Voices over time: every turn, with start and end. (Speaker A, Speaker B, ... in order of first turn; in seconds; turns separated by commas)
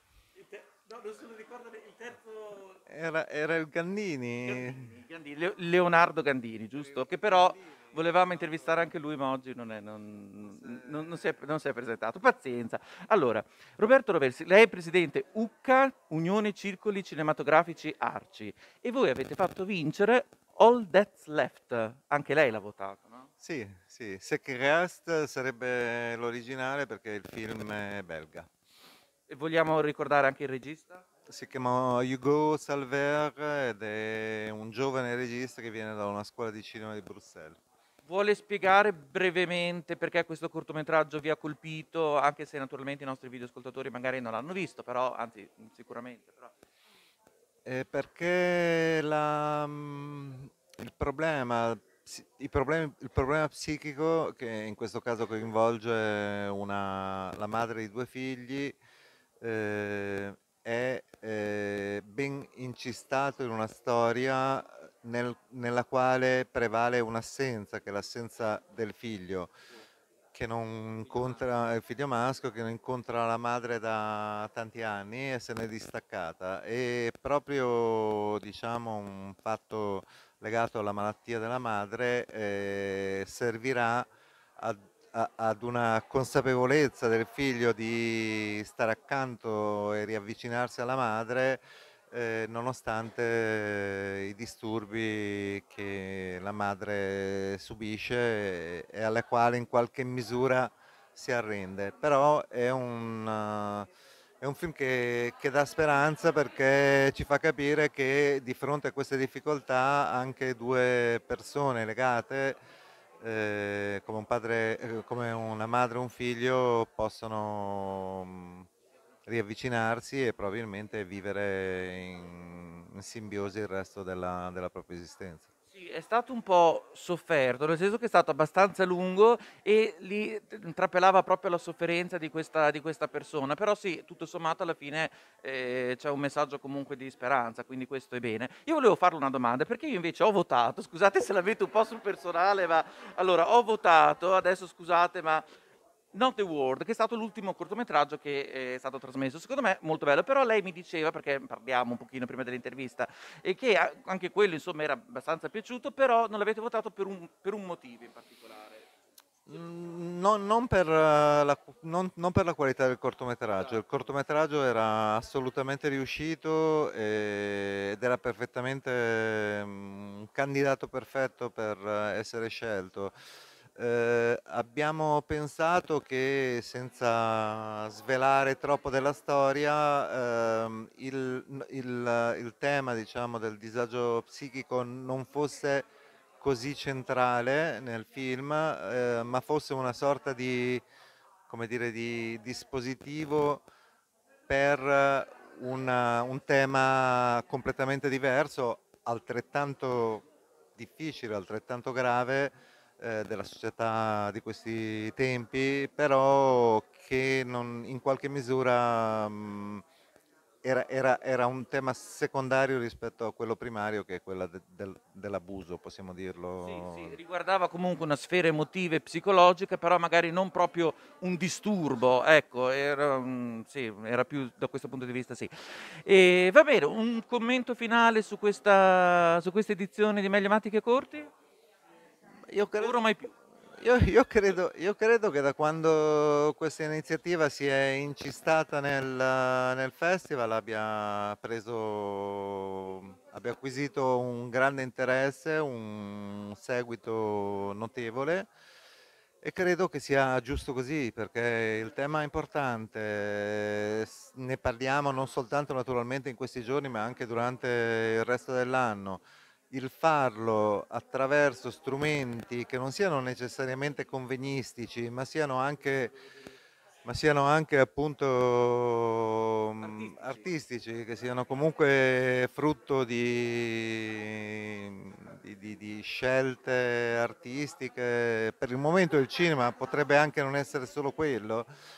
Speaker A: 0.3-2.8, Speaker B: 2.9-5.0, Speaker A: 4.4-23.3, Speaker B: 7.0-8.0, Speaker B: 10.6-11.1, Speaker B: 23.4-28.5, Speaker A: 29.3-31.0, Speaker B: 31.3-37.6, Speaker A: 38.0-46.5, Speaker B: 47.6-58.8, Speaker B: 59.4-69.5, Speaker B: 70.3-91.6, Speaker B: 92.1-103.9, Speaker B: 104.4-112.6, Speaker B: 113.2-118.7, Speaker B: 119.2-125.5, Speaker A: 125.7-145.5, Speaker A: 146.1-158.8, Speaker B: 159.5-173.1, Speaker B: 173.8-185.9, Speaker B: 186.4-190.8, Speaker B: 191.5-193.6, Speaker B: 194.5-209.8, Speaker B: 210.6-217.2, Speaker A: 216.6-231.3, Speaker B: 232.5-233.0, Speaker A: 232.8-233.3, Speaker B: 233.7-248.5, Speaker B: 249.4-266.1, Speaker B: 267.0-281.7, Speaker A: 269.8-270.5